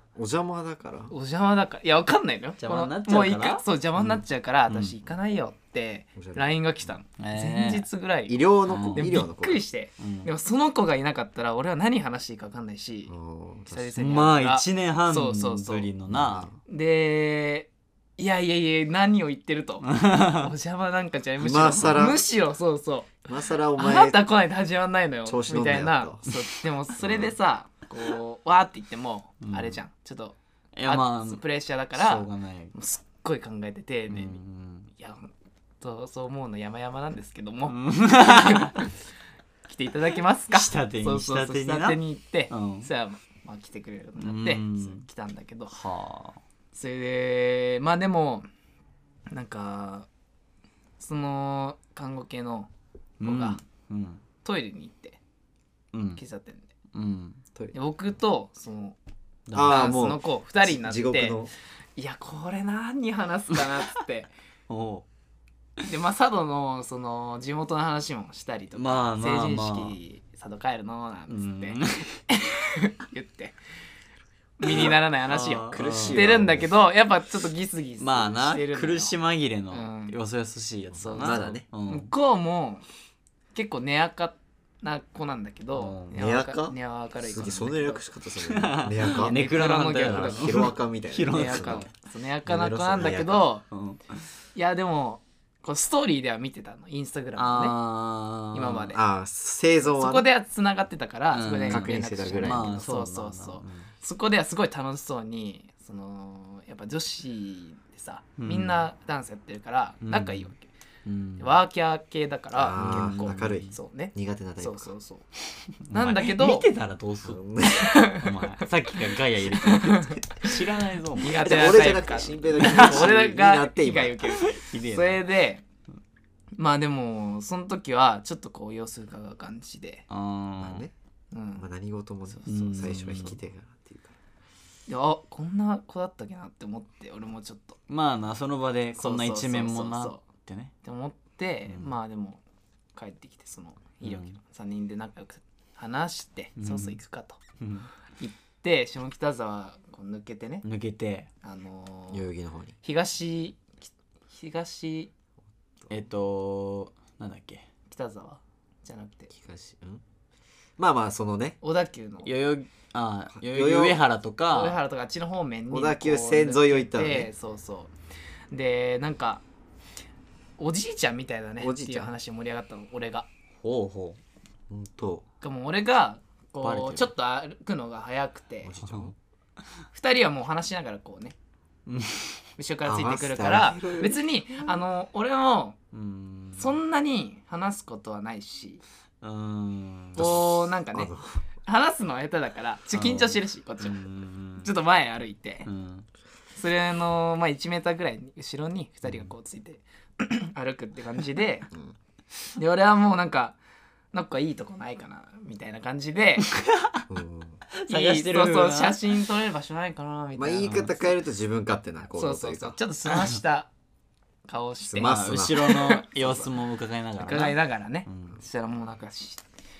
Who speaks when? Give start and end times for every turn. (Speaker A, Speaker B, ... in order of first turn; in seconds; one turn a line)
Speaker A: 0.1-1.1
Speaker B: 1.1-13.1
Speaker C: 2.6-3.6
Speaker C: 4.7-4.9
Speaker A: 6.2-6.9
Speaker C: 7.2-7.8
Speaker A: 8.3-9.6
Speaker C: 8.7-9.2
Speaker C: 10.0-10.3
Speaker A: 13.1-13.9
Speaker B: 13.7-15.9
Speaker C: 14.0-16.5
Speaker A: 16.1-16.5
Speaker B: 16.6-34.4
Speaker C: 19.9-20.5
Speaker A: 21.4-22.2
Speaker A: 23.3-24.2
Speaker A: 25.2-26.2
Speaker A: 27.0-27.3
Speaker C: 29.4-29.8
Speaker C: 30.8-31.4
Speaker C: 31.9-32.7
Speaker C: 34.1-34.9
Speaker B: 35.0-38.9
Speaker C: 37.7-38.8
Speaker B: 39.7-45.8
Speaker C: 40.5-42.9
Speaker C: 44.2-45.0
Speaker C: 45.7-46.4
Speaker B: 46.7-48.5
Speaker B: 49.3-50.1
Speaker B: 51.0-52.7
Speaker C: 53.2-54.2
Speaker B: 53.2-53.6
Speaker B: 54.4-55.2
Speaker C: 55.9-56.2
Speaker B: 56.1-56.7
Speaker C: 56.9-57.4
Speaker B: 57.7-59.0
Speaker C: 59.5-59.9
Speaker A: 59.5-61.5
Speaker B: 59.6-61.4
Speaker B: 62.0-64.3
Speaker C: 64.7-65.0
Speaker B: 65.8-73.6
Speaker C: 68.8-70.0
Speaker C: 71.3-72.2
Speaker B: 74.6-79.1
Speaker C: 74.7-76.3
Speaker A: 75.7-76.7
Speaker C: 78.0-82.1
Speaker B: 79.7-80.2
Speaker B: 80.9-82.8
Speaker A: 81.2-81.7
Speaker B: 83.5-88.0
Speaker C: 85.7-86.1
Speaker A: 86.1-89.4
Speaker C: 88.4-91.9
Speaker B: 89.0-90.7
Speaker A: 90.0-91.9
Speaker B: 91.3-93.6
Speaker A: 92.5-93.5
Speaker C: 93.7-94.3
Speaker B: 94.5-97.8
Speaker C: 97.3-98.9
Speaker B: 98.5-99.0
Speaker A: 98.9-100.3
Speaker B: 99.8-110.7
Speaker C: 101.3-103.9
Speaker A: 101.7-102.7
Speaker C: 108.4-108.8
Speaker C: 110.0-110.5
Speaker C: 111.0-111.6
Speaker B: 111.4-115.3
Speaker A: 112.5-114.9
Speaker C: 112.8-113.7
Speaker C: 115.8-117.4
Speaker B: 115.9-116.7
Speaker A: 117.2-118.0
Speaker B: 117.7-118.6
Speaker C: 118.1-121.7
Speaker B: 119.5-120.6
Speaker B: 121.2-125.6
Speaker A: 121.4-124.2
Speaker C: 122.6-123.1
Speaker C: 124.4-125.3
Speaker B: 126.5-130.0
Speaker C: 130.1-130.8
Speaker A: 130.6-130.9
Speaker B: 131.3-131.7
Speaker A: 131.6-134.2
Speaker B: 132.3-133.0
Speaker C: 132.4-133.4
Speaker B: 134.9-137.8
Speaker C: 137.9-140.7
Speaker B: 139.0-140.2
Speaker B: 140.8-142.4
Speaker B: 142.9-147.4
Speaker C: 144.0-144.3
Speaker C: 146.6-147.0
Speaker C: 147.6-147.9
Speaker B: 148.2-150.6
Speaker C: 150.6-151.3
Speaker B: 151.4-152.3
Speaker A: 152.1-152.8
Speaker B: 152.8-155.1
Speaker C: 155.9-157.7
Speaker B: 157.9-159.3
Speaker A: 159.3-160.0
Speaker A: 160.8-161.6
Speaker B: 161.6-162.3
Speaker C: 162.2-164.8
Speaker A: 163.3-164.0
Speaker B: 164.5-167.9
Speaker A: 165.7-167.3
Speaker B: 168.5-169.4
Speaker B: 170.6-173.3
Speaker A: 171.6-172.1
Speaker C: 173.6-174.2
Speaker A: 174.7-175.2
Speaker B: 175.4-178.7
Speaker C: 176.6-177.1
Speaker A: 178.6-179.2
Speaker C: 178.8-179.1
Speaker B: 179.9-181.3
Speaker C: 181.8-182.4
Speaker B: 182.6-185.8
Speaker A: 182.8-184.2
Speaker C: 185.9-186.8
Speaker B: 186.6-188.8
Speaker C: 189.2-190.4
Speaker B: 190.2-191.1
Speaker A: 190.2-191.4
Speaker B: 191.6-194.0
Speaker C: 192.9-194.7
Speaker B: 194.6-195.7
Speaker C: 195.7-196.1
Speaker B: 196.6-201.7
Speaker B: 202.5-203.6
Speaker B: 204.1-206.5
Speaker C: 206.5-207.0
Speaker A: 207.1-207.6
Speaker C: 207.8-209.2
Speaker B: 207.9-211.1
Speaker A: 210.3-212.8
Speaker B: 212.1-213.7
Speaker B: 214.4-216.5
Speaker A: 214.8-215.7
Speaker C: 215.0-218.4
Speaker B: 217.2-219.4